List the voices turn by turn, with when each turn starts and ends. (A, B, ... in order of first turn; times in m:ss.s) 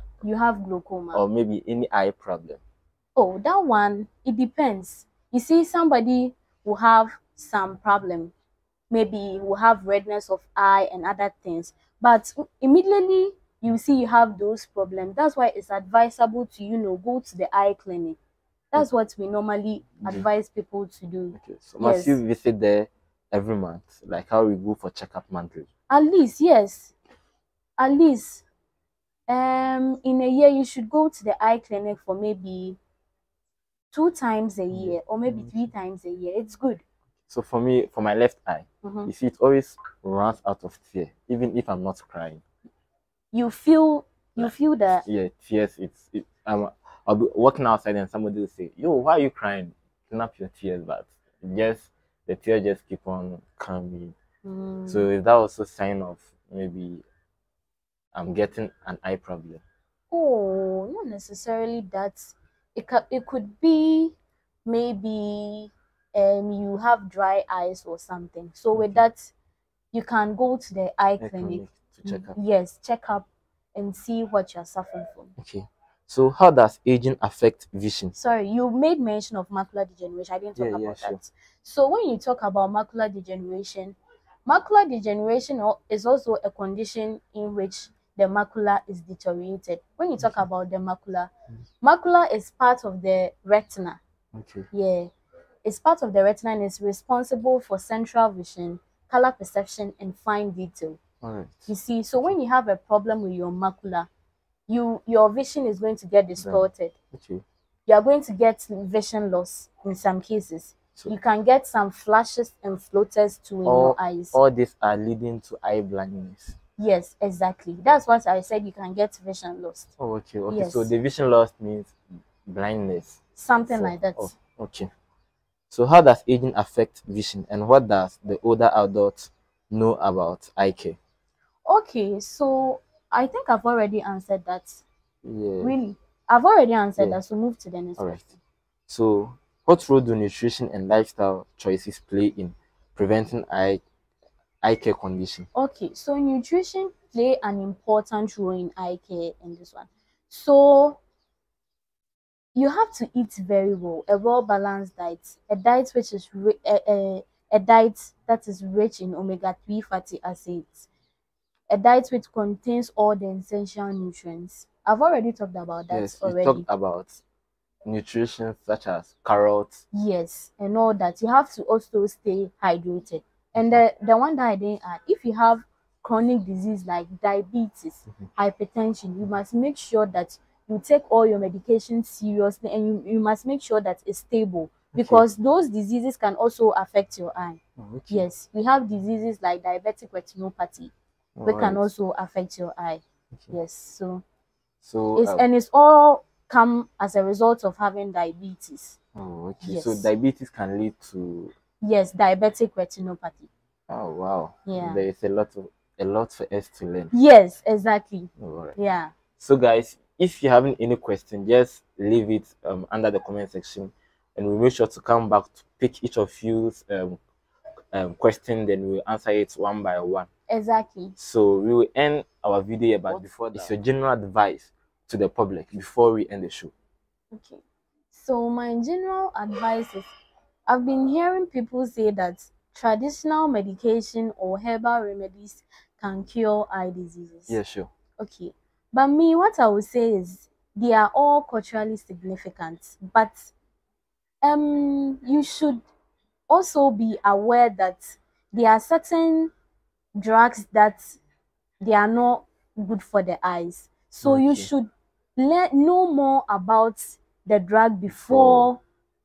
0:00.2-0:01.2 A
0:01.1-0:02.6 B
0:03.2-0:08.3 A
0:08.9-0:18.2 A
0:18.7-0:22.2 A
0:20.0-0:20.3 B
0:21.3-0:25.7 B
0:25.9-0:26.9 A
0:27.8-0:28.4 A
0:29.3-0:32.8 A
0:33.9-0:36.8 A
0:34.7-0:35.7 B
0:37.3-0:42.4 B
0:38.8-0:39.1 A
0:43.3-0:45.1 A
0:44.4-0:54.2 B
0:54.4-0:55.1 A
0:54.9-0:57.0 B
0:58.1-0:59.6 B
1:00.1-1:09.3 A
1:08.7-1:09.0 B
1:09.9-1:15.3 A
1:11.2-1:12.4 B
1:15.4-1:18.2 B
1:18.2-1:31.3 A
1:20.6-1:21.2 B
1:30.2-1:30.4 B
1:31.8-1:34.0 A
1:34.4-1:34.7 B
1:34.7-1:35.1 A
1:35.6-1:41.0 A
1:41.2-1:42.4 B
1:41.7-1:44.1 A
1:44.7-1:46.9 A
1:46.4-1:47.4 B
1:47.9-1:54.4 A
1:53.6-1:56.6 B
1:56.8-1:59.9 A
2:00.0-2:04.9 B
2:00.5-2:00.9 A
2:03.4-2:04.4 A
2:05.7-2:11.0 B
2:11.7-2:14.8 A
2:15.2-2:15.8 B
2:15.6-2:18.4 A
2:18.0-2:18.2 B
2:18.9-2:23.8 B
2:24.6-2:25.5 B
2:25.5-2:31.0 A
2:32.6-2:40.9 A
2:41.7-2:46.7 A
2:45.9-2:47.2 B
2:47.8-2:49.8 B
2:49.9-3:10.9 A
3:04.9-3:05.2 B
3:07.8-3:08.3 B
3:11.4-3:11.9 B
3:11.4-3:14.2 A
3:14.8-3:15.4 B
3:15.2-3:19.0 A
3:19.2-3:21.5 B
3:19.6-3:20.1 A
3:21.8-3:23.5 A
3:23.9-3:27.1 B
3:24.7-3:25.0 A
3:27.1-3:29.1 A
3:28.4-3:28.8 B
3:29.4-3:37.2 B
3:37.9-3:40.3 B
3:40.5-3:41.2 A
3:41.2-3:46.7 B
3:43.1-3:43.6 A
3:47.3-3:50.1 A
3:50.7-3:57.6 A
3:57.5-3:57.9 B
3:58.2-4:03.5 A
4:04.4-4:05.8 A
4:06.5-4:09.5 A
4:10.2-4:11.2 A
4:11.8-4:18.8 A
4:14.2-4:14.7 B
4:18.1-4:18.7 B